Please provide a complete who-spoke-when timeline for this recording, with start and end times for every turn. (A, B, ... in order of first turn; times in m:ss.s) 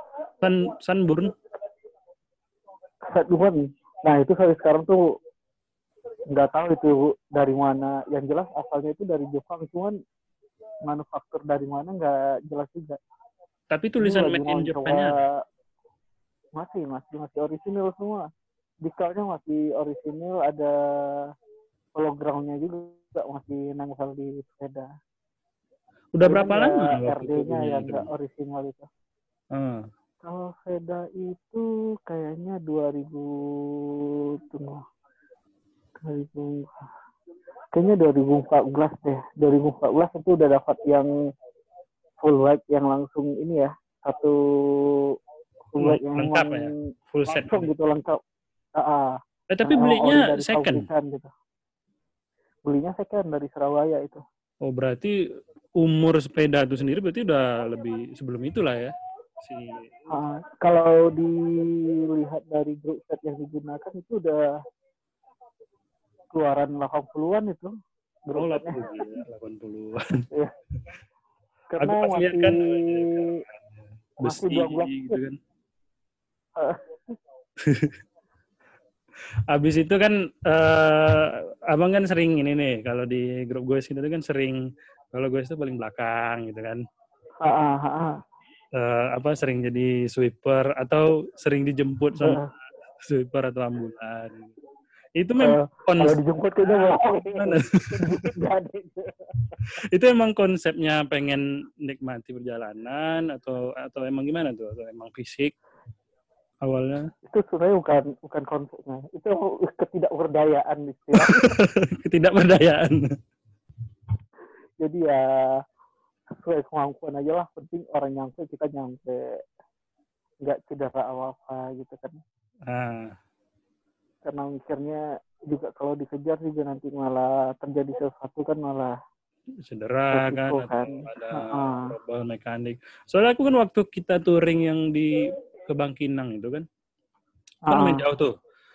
0:00.4-0:01.3 A
0:03.1-0:05.0 B
0:06.3-0:10.0 B
0:10.9-0:13.0 B
0:13.7-0:15.1 A
0:14.0-0:15.4 B
0:16.6-0:18.3 B
0:18.8-0:20.7 B
0:22.0-0:24.9 B
0:26.2-0:28.1 A
0:26.2-0:28.9 B
0:29.5-0:29.9 A
0:30.2-0:33.3 B
0:34.5-0:34.8 B
0:36.0-0:36.9 B
0:37.7-0:41.1 B
0:42.2-0:44.4 B
0:45.7-0:46.8 B
0:45.8-0:47.7 A
0:47.3-0:48.2 B
0:48.8-0:49.2 B
0:49.5-0:50.9 A
0:49.7-0:51.3 B
0:52.7-0:54.2 B
0:54.6-0:55.1 A
0:55.8-1:00.0 A
1:00.1-1:04.4 B
1:06.3-1:07.7 B
1:08.3-1:09.2 B
1:08.4-1:10.2 A
1:11.7-1:13.4 B
1:11.8-1:15.4 A
1:14.2-1:15.2 B
1:16.6-1:17.0 B
1:17.6-1:18.0 A
1:19.5-1:24.6 A
1:25.1-1:26.8 A
1:27.4-1:28.2 B
1:28.8-1:32.4 A
1:32.2-1:32.5 B
1:33.0-1:34.5 A
1:35.2-1:36.2 A
1:35.4-1:39.7 B
1:37.3-1:38.1 A
1:39.6-1:45.5 A
1:46.6-1:47.0 A
1:47.3-1:51.6 B
1:51.1-1:53.0 A
1:54.8-1:55.2 B
1:56.3-1:59.2 B
2:00.4-2:02.2 B
2:02.7-2:03.1 A
2:04.3-2:08.9 B
2:09.6-2:16.7 A
2:10.1-2:11.9 B
2:17.7-2:18.0 B
2:17.7-2:18.3 A